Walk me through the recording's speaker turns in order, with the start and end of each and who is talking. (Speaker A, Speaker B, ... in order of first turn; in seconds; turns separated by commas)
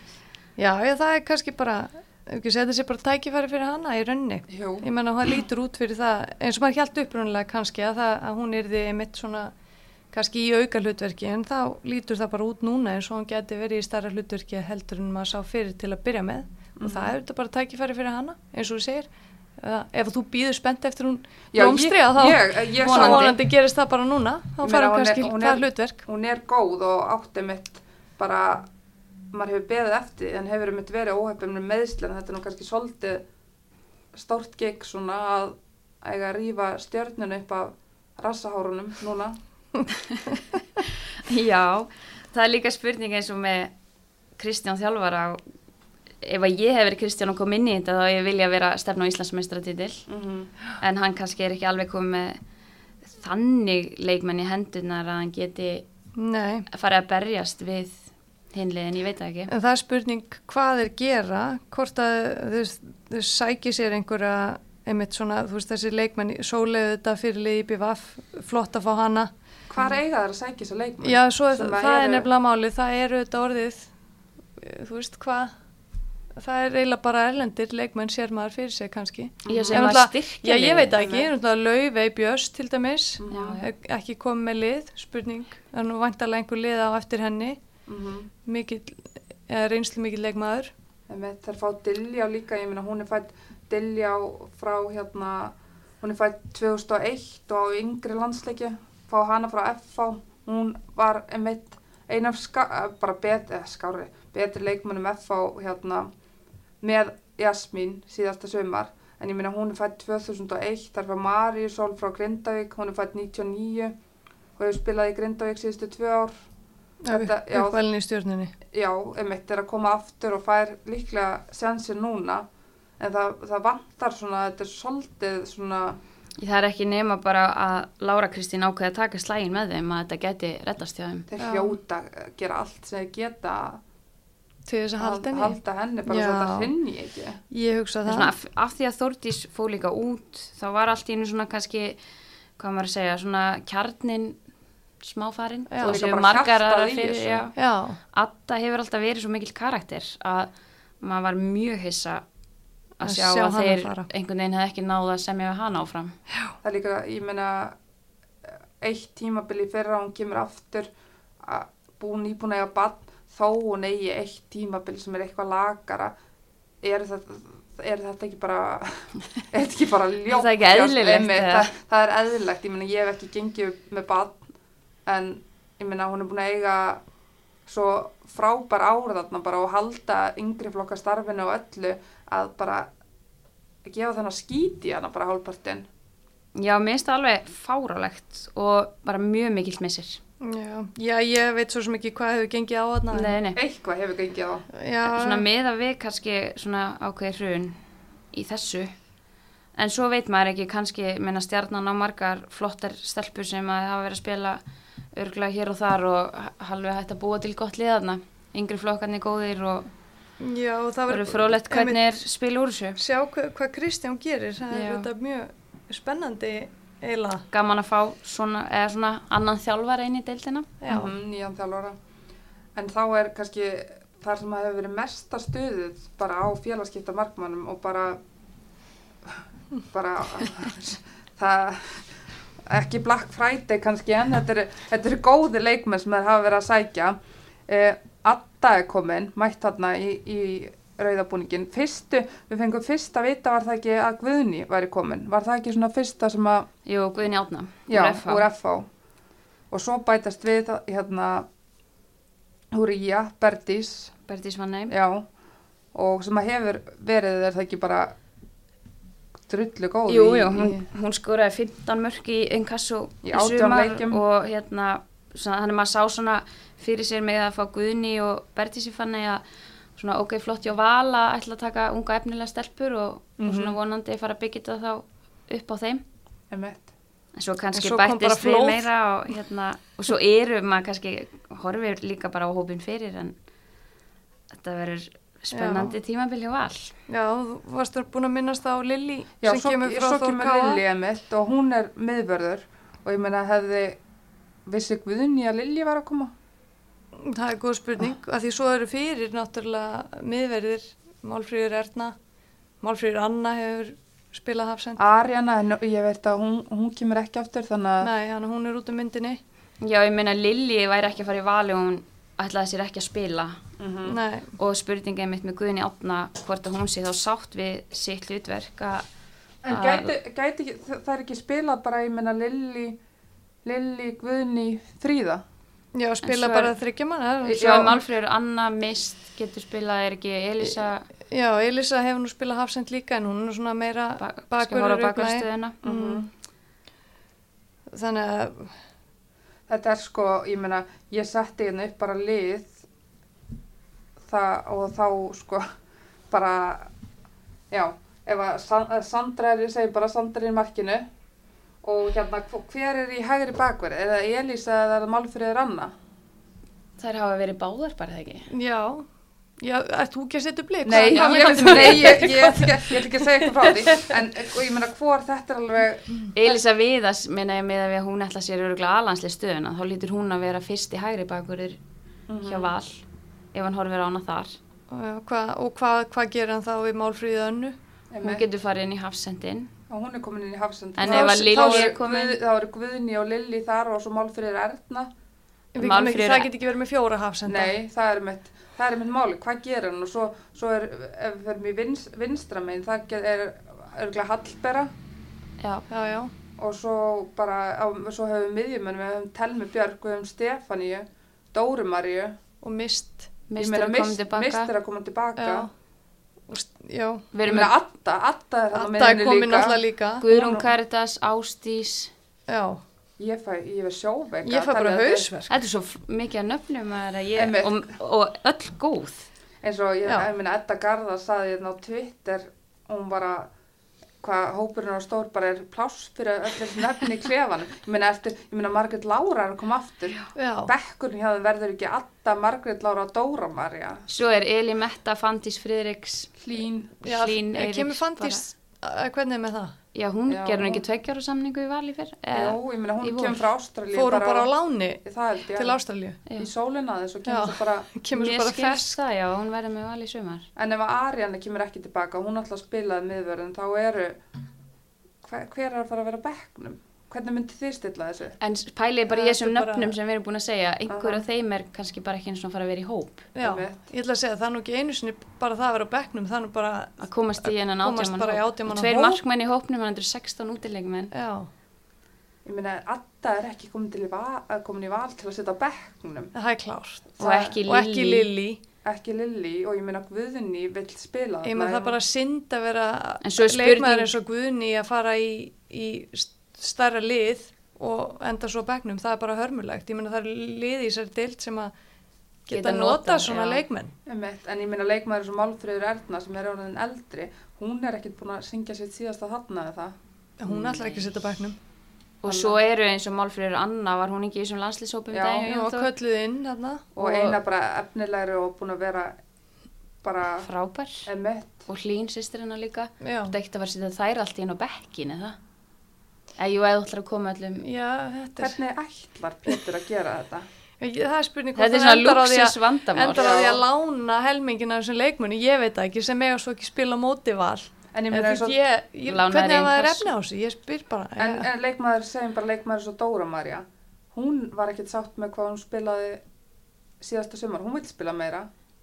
Speaker A: 0.6-9.5, Speaker B: 4.5-4.9, Speaker A: 10.1-26.0, Speaker B: 16.8-17.1, Speaker B: 21.5-23.3, Speaker C: 22.8-23.4, Speaker B: 24.6-28.7, Speaker B: 29.3-33.2, Speaker B: 34.1-39.4, Speaker C: 41.3-43.7, Speaker C: 44.4-45.4, Speaker C: 46.2-50.1, Speaker B: 50.1-50.5, Speaker C: 50.8-52.4, Speaker C: 53.0-55.9, Speaker A: 56.2-56.7, Speaker C: 56.7-59.5, Speaker A: 59.5-69.8, Speaker B: 69.7-72.3, Speaker A: 71.0-73.9, Speaker A: 74.6-75.5, Speaker A: 76.3-87.6, Speaker B: 79.5-79.9, Speaker C: 79.5-80.9, Speaker B: 81.0-81.3, Speaker B: 83.2-83.6, Speaker C: 83.3-83.6, Speaker B: 87.9-88.3, Speaker A: 88.5-90.7, Speaker B: 91.1-106.1, Speaker B: 106.8-114.0, Speaker B: 114.6-116.3, Speaker A: 117.0-118.5, Speaker B: 117.1-117.8, Speaker B: 118.7-122.5, Speaker B: 123.0-126.0, Speaker C: 126.4-131.3, Speaker B: 131.3-133.8, Speaker A: 131.4-131.8, Speaker A: 134.7-136.7, Speaker B: 135.0-137.4, Speaker A: 137.5-138.3, Speaker C: 138.1-142.0, Speaker C: 142.6-144.4, Speaker C: 145.0-147.6, Speaker A: 145.7-146.0, Speaker B: 145.8-147.5, Speaker A: 147.6-148.0, Speaker C: 148.1-152.2, Speaker C: 153.0-156.2, Speaker A: 153.0-154.1, Speaker B: 156.6-157.8, Speaker B: 158.5-160.9, Speaker B: 161.4-166.1, Speaker B: 166.8-174.4, Speaker C: 170.3-171.7, Speaker B: 175.1-177.0, Speaker B: 177.7-182.9, Speaker B: 183.8-185.9, Speaker C: 186.6-190.2, Speaker A: 190.4-193.4, Speaker C: 193.1-193.6, Speaker B: 193.6-194.7, Speaker A: 194.7-195.5, Speaker C: 195.0-197.8, Speaker C: 198.3-198.9, Speaker C: 199.8-204.6, Speaker C: 205.1-209.9, Speaker A: 210.4-212.2, Speaker C: 211.1-213.0, Speaker A: 213.0-217.5, Speaker C: 214.7-215.1, Speaker C: 217.5-220.8, Speaker A: 220.8-221.1, Speaker B: 220.9-222.0, Speaker B: 222.8-228.2, Speaker B: 229.3-246.7, Speaker C: 246.9-248.4, Speaker B: 247.9-248.9, Speaker B: 249.7-251.5, Speaker B: 252.7-254.1, Speaker C: 254.3-254.9, Speaker B: 254.9-255.3, Speaker B: 255.9-258.2, Speaker B: 259.5-260.9, Speaker C: 260.1-269.4, Speaker B: 263.2-264.2, Speaker C: 270.0-276.0, Speaker B: 273.4-273.8, Speaker B: 276.5-276.9, Speaker C: 277.4-283.4, Speaker A: 277.8-278.9, Speaker C: 284.5-287.0, Speaker A: 285.5-286.0, Speaker A: 287.1-290.8, Speaker B: 289.4-294.0, Speaker B: 294.7-296.3, Speaker A: 297.1-302.2, Speaker A: 302.8-305.0, Speaker B: 305.0-308.1, Speaker A: 308.0-309.4, Speaker C: 309.8-313.6, Speaker B: 313.8-314.2, Speaker A: 314.1-314.6, Speaker C: 314.6-319.1, Speaker B: 319.6-323.0, Speaker C: 319.7-320.1, Speaker B: 323.6-325.4, Speaker A: 325.9-328.0, Speaker C: 326.2-326.8, Speaker B: 327.4-328.0, Speaker C: 327.5-331.1, Speaker A: 331.3-336.3, Speaker C: 334.2-335.8, Speaker B: 335.8-336.3, Speaker A: 337.9-338.8, Speaker B: 339.7-342.8, Speaker B: 344.3-345.7, Speaker B: 346.3-346.9, Speaker B: 347.7-351.1, Speaker B: 351.8-355.9, Speaker C: 357.0-358.5, Speaker A: 358.5-364.2, Speaker B: 360.9-366.6, Speaker C: 360.9-361.9, Speaker C: 366.4-371.8, Speaker B: 372.3-372.7, Speaker C: 372.5-373.0, Speaker C: 373.5-374.6, Speaker A: 374.9-377.8, Speaker B: 378.1-378.4, Speaker C: 378.2-379.7, Speaker B: 379.9-385.1, Speaker C: 381.0-382.4, Speaker A: 381.1-382.0, Speaker A: 385.7-387.7, Speaker C: 385.8-386.5, Speaker B: 387.5-394.9, Speaker C: 395.6-395.9, Speaker A: 395.9-396.3, Speaker B: 396.6-402.4, Speaker A: 402.6-403.3, Speaker C: 403.5-404.7, Speaker B: 403.6-405.7, Speaker A: 405.4-405.7, Speaker A: 406.5-407.3, Speaker C: 407.3-407.7, Speaker B: 407.4-410.7, Speaker A: 408.7-410.3, Speaker C: 410.2-412.1, Speaker A: 412.5-412.8, Speaker B: 413.2-415.3, Speaker A: 414.4-415.6, Speaker C: 415.5-419.3, Speaker B: 417.4-417.9, Speaker B: 419.6-423.5, Speaker B: 424.2-434.0, Speaker A: 430.4-430.7, Speaker C: 434.1-436.3, Speaker B: 436.4-437.0, Speaker C: 437.0-438.4, Speaker A: 437.0-439.8, Speaker C: 439.9-443.5, Speaker B: 440.3-440.8, Speaker B: 442.3-444.5, Speaker A: 443.9-445.0, Speaker B: 445.0-447.9, Speaker A: 445.5-446.2, Speaker A: 447.3-449.0, Speaker C: 448.1-450.5, Speaker B: 450.6-454.2, Speaker B: 455.2-458.4, Speaker C: 458.4-463.3, Speaker A: 459.1-459.9, Speaker B: 460.9-461.2, Speaker A: 463.4-469.2, Speaker B: 463.4-463.8, Speaker C: 467.0-471.1, Speaker A: 471.1-471.5, Speaker B: 472.5-476.3, Speaker A: 476.3-478.6, Speaker B: 477.2-477.6, Speaker C: 477.2-478.3, Speaker B: 478.9-482.0, Speaker A: 481.4-491.7, Speaker C: 483.2-484.1, Speaker A: 492.5-493.9, Speaker C: 492.5-493.6, Speaker B: 494.1-500.0, Speaker A: 500.4-501.6, Speaker C: 500.5-501.1, Speaker C: 502.2-505.9, Speaker B: 502.3-502.6, Speaker B: 505.1-505.5, Speaker A: 505.5-507.3, Speaker B: 507.0-509.2, Speaker B: 510.0-510.5, Speaker C: 510.4-511.1, Speaker B: 511.1-511.7, Speaker C: 511.7-515.4, Speaker A: 513.0-513.3, Speaker C: 516.4-517.7, Speaker A: 517.6-518.6, Speaker B: 518.4-520.5, Speaker A: 520.8-531.5, Speaker C: 521.6-523.3, Speaker B: 523.1-523.6, Speaker B: 527.9-528.6, Speaker C: 529.1-530.1, Speaker B: 531.2-536.2, Speaker B: 537.0-538.5